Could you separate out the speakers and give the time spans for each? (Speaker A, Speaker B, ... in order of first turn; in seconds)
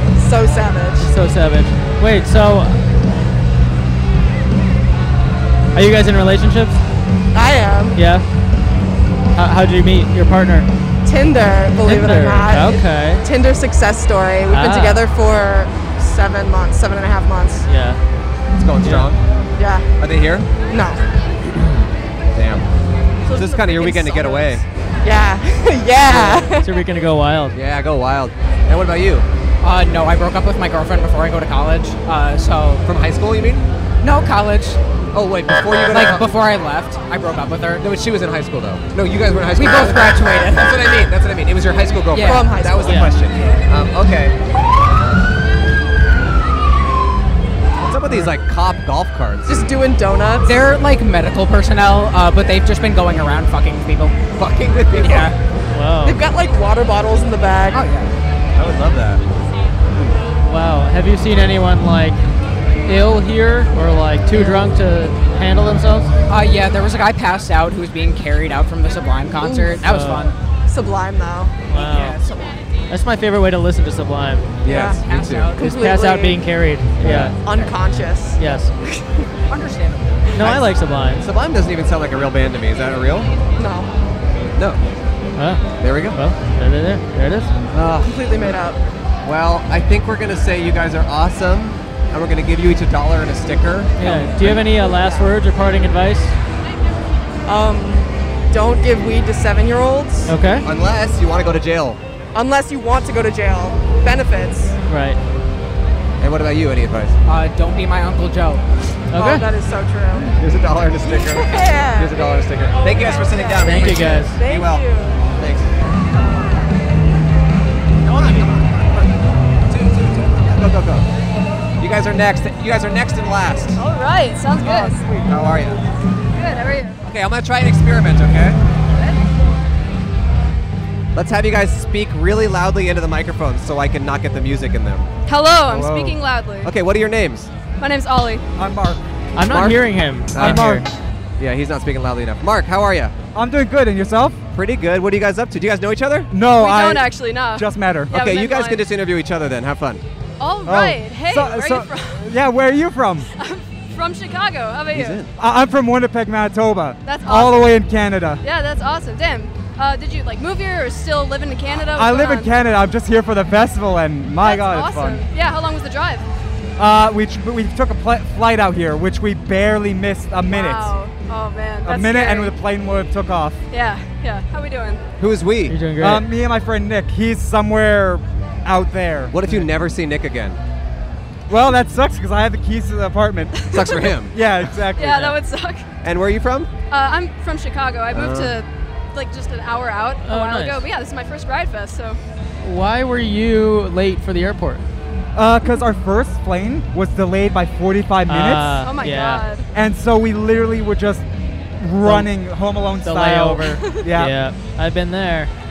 Speaker A: 0.2-1.1, 7.3-8.0, 11.1-17.7, 19.6-19.9, 20.6-21.0, 23.3-26.6, 42.2-43.2, 49.5-50.5, 56.0-57.9, 69.4-69.8, 70.7-71.6, 74.7-75.0, 75.5-76.5, 77.2-79.2, 83.6-83.9, 88.0-88.8, 94.1-95.3, 97.5-100.3, 102.3-104.8, 109.2-110.3, 111.0-115.2, 124.7-125.2
Speaker B: 1.0-2.8, 5.8-6.8, 7.9-8.2, 9.3-10.7, 11.8-13.2, 14.5-15.0, 17.7-18.0, 18.8-19.1, 26.1-27.6, 42.8-43.1, 55.7-56.2, 60.4-62.2, 62.9-66.1, 69.8-70.3, 71.7-72.2, 72.9-74.5, 75.6-77.4, 78.4-78.7, 80.3-81.3, 85.4-87.5, 94.0-96.3, 100.2-100.7, 104.9-105.2, 109.1-109.5, 113.6-114.4, 139.3-140.9, 175.7-176.3, 190.2-190.9, 192.6-194.8, 198.3-199.4, 202.0-202.3, 203.0-205.5
Speaker C: 18.5-19.2, 20.0-20.5, 22.3-22.7, 23.3-24.6, 27.5-29.3, 32.9-33.7, 35.1-36.3, 37.8-44.4, 47.8-49.7, 54.4-55.3, 58.6-59.2, 74.6-75.5, 80.4-80.7, 81.2-83.3, 85.8-86.2, 87.7-88.3, 89.2-94.6, 100.6-102.0, 106.2-107.2, 110.2-115.7, 118.1-118.5, 119.7-121.1, 121.8-123.8, 125.3-125.8, 127.1-128.6, 131.2-135.1, 136.7-137.5, 139.5-140.8, 141.4-143.2, 144.5-146.3, 148.1-150.0, 154.9-155.3, 175.2-175.9, 179.3-180.6, 183.7-184.3, 186.0-186.7, 188.1-188.6
Speaker D: 29.6-32.8, 34.0-34.8, 35.8-37.9, 39.5-40.9, 42.1-42.6, 50.4-54.1, 54.9-55.4, 57.7-58.1, 66.3-70.4, 71.7-72.6, 74.7-75.6, 77.5-77.8, 79.5-80.3, 107.2-108.6
Speaker E: 123.8-125.1, 126.3-127.0, 128.9-129.2, 135.3-136.7, 137.8-138.4, 146.5-148.8, 150.4-152.2, 153.3-155.2, 157.0-157.8, 158.4-162.5, 164.4-166.2, 170.5-172.5, 173.7-175.0, 183.5-184.1, 185.0-185.9, 186.9-192.2, 198.8-199.7
Speaker F: 135.6-136.2, 138.6-139.0, 140.3-140.8, 143.3-144.4, 146.3-148.3, 150.7-153.3, 155.3-158.4, 161.7-165.3, 166.8-171.0, 171.8-173.6, 175.9-179.4, 181.5-183.7, 184.3-185.4, 195.3-198.8, 199.7-201.2, 201.8-204.4